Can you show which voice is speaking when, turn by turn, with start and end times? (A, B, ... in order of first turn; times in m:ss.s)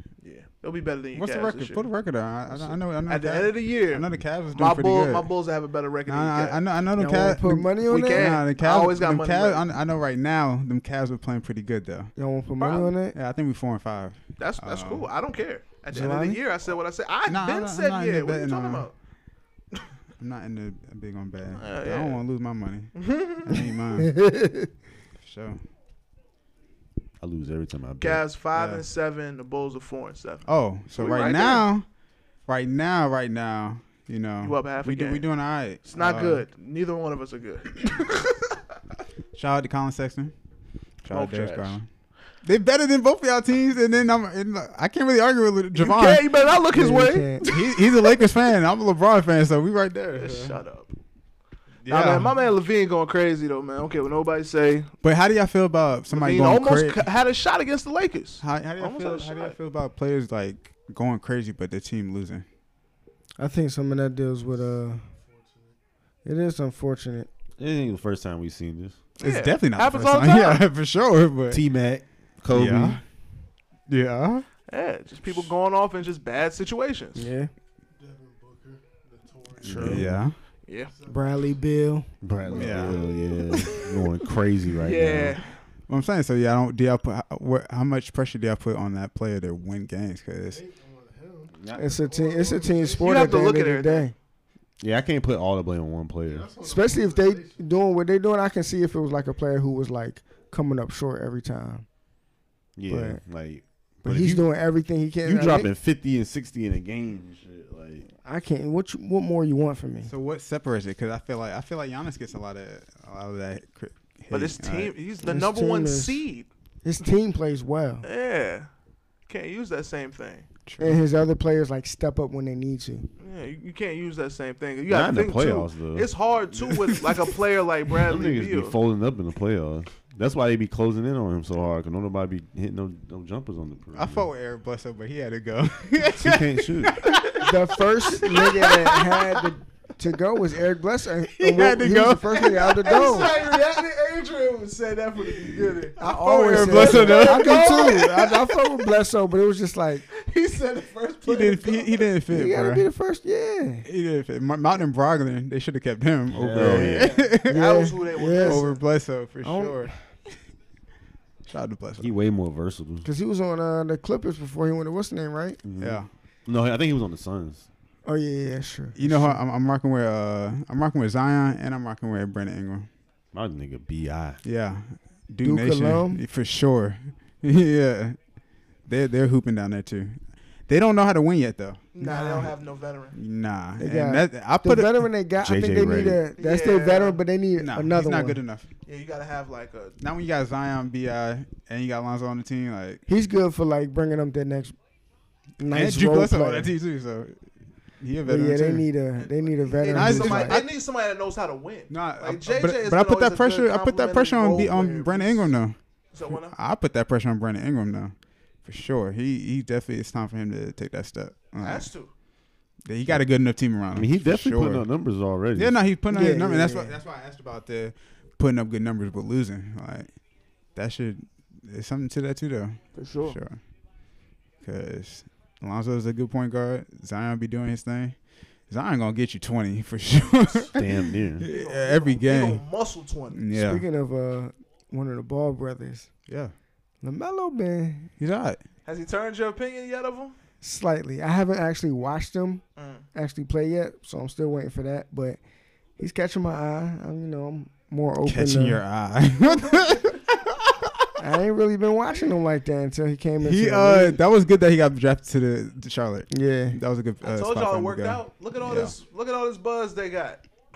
0:00.2-0:01.9 A
0:01.1-0:05.3 B
0:02.5-0:06.6 A
0:06.1-0:12.1 B
0:07.0-0:08.3 C
0:07.9-0:09.6 A
0:12.2-0:13.2 C
0:12.6-0:12.9 A
0:13.1-0:15.1 B
0:14.4-0:18.9 A
0:15.9-0:16.4 C
0:17.2-0:18.9 B
0:20.2-0:24.2 B
0:21.6-0:22.2 A
0:23.0-0:23.6 A
0:25.2-0:25.6 B
0:27.2-0:28.2 D
0:28.0-0:31.6 A
0:28.5-0:28.8 B
0:30.5-0:31.8 B
0:32.5-0:36.4 B
0:34.4-0:35.2 A
0:35.8-0:38.6 A
0:39.3-0:40.3 B
0:41.0-0:41.8 B
0:41.1-0:41.8 A
0:42.4-0:46.2 B
0:45.8-0:48.1 A
0:46.7-0:47.4 C
0:47.4-0:50.6 B
0:50.2-0:50.9 A
0:51.8-0:52.3 B
0:51.9-0:54.9 A
0:55.0-0:57.0 B
0:56.1-0:59.6 A
0:58.4-1:02.4 B
1:03.4-1:05.0 C
1:04.4-1:05.8 E
1:06.2-1:07.3 C
1:07.6-1:09.0 D
1:09.2-1:10.6 A
1:09.2-1:11.6 B
1:11.5-1:13.0 D
1:12.5-1:13.0 B
1:13.9-1:14.5 B
1:14.7-1:17.3 A
1:17.2-1:17.5 C
1:17.9-1:20.1 E
1:19.6-1:20.1 D
1:19.7-1:20.4 B
1:20.8-1:21.6 E
1:21.1-1:22.1 C
1:22.2-1:25.4 D
1:22.4-1:23.8 E
1:22.5-1:23.1 B
1:24.8-1:25.6 A
1:25.9-1:30.6 B
1:30.4-1:33.3 E
1:31.5-1:31.8 D
1:31.8-1:34.1 C
1:33.0-1:34.1 A
1:34.8-1:36.5 D
1:36.2-1:37.7 E
1:36.6-1:41.8 C
1:42.8-1:44.5 D
1:42.9-1:43.2 C
1:44.0-1:45.7 C
1:45.2-1:48.1 D
1:48.2-1:50.1 C
1:50.0-1:54.9 B
1:54.3-1:56.5 A
1:55.2-1:56.2 C
1:56.8-1:58.0 C
1:58.0-1:58.7 A
1:59.3-2:00.5 A
2:00.6-2:01.0 B
2:00.8-2:03.1 C
2:03.2-2:08.8 A
2:04.9-2:06.1 D
2:06.7-2:07.2 B
2:08.0-2:14.3 D
2:13.9-2:17.5 B
2:16.0-2:17.0 D
2:17.4-2:23.3 C
2:18.1-2:19.3 B
2:21.3-2:23.4 B
2:22.7-2:28.6 A
2:26.0-2:30.0 C
2:26.0-2:28.4 B
2:30.1-2:32.2 A
2:31.2-2:32.9 B
2:32.3-2:33.8 C
2:33.8-2:37.6 B
2:36.3-2:37.1 D
2:36.6-2:38.7 C
2:36.6-2:38.8 A
2:38.3-2:39.9 B
2:39.4-2:39.9 C
2:41.4-2:42.1 B
2:42.0-2:43.1 D
2:43.0-2:45.6 C
2:45.6-2:47.7 D
2:45.8-2:46.1 B
2:48.0-2:49.4 C
2:49.0-2:52.9 B
2:53.3-2:54.4 D
2:54.4-2:58.2 B
2:55.4-2:56.2 C
2:58.8-3:02.5 B
3:01.9-3:03.2 A
3:03.1-3:05.1 B
3:03.8-3:08.4 C
3:05.4-3:06.2 D
3:06.4-3:07.2 A
3:07.6-3:08.7 B
3:08.8-3:10.0 A
3:10.0-3:13.0 B
3:13.1-3:14.7 C
3:15.6-3:16.7 C
3:15.7-3:17.4 B
3:18.0-3:18.9 B
3:18.2-3:20.6 C
3:19.2-3:25.6 A
3:19.9-3:20.8 B
3:21.9-3:25.8 B
3:26.1-3:26.5 A
3:26.3-3:31.9 B
3:31.6-3:32.1 A
3:32.8-3:34.8 B
3:33.9-3:35.8 D
3:35.5-3:40.1 B
3:36.1-3:37.0 C
3:40.7-3:43.6 B
3:42.9-3:43.4 A
3:44.6-3:48.2 B
3:48.7-3:50.7 B
3:50.7-3:51.5 D
3:51.4-3:52.6 B
3:51.5-3:53.4 A
3:53.3-3:53.8 B
3:53.5-3:56.1 C
3:56.3-3:56.5 B
3:57.0-3:58.1 C
3:58.2-3:58.6 B
3:58.8-4:00.3 A
4:00.6-4:02.6 C
4:02.8-4:03.0 A
4:03.1-4:05.4 C
4:06.0-4:08.8 C
4:08.2-4:11.0 B
4:11.2-4:14.2 C
4:13.4-4:19.0 B
4:16.3-4:16.8 C
4:17.2-4:20.4 A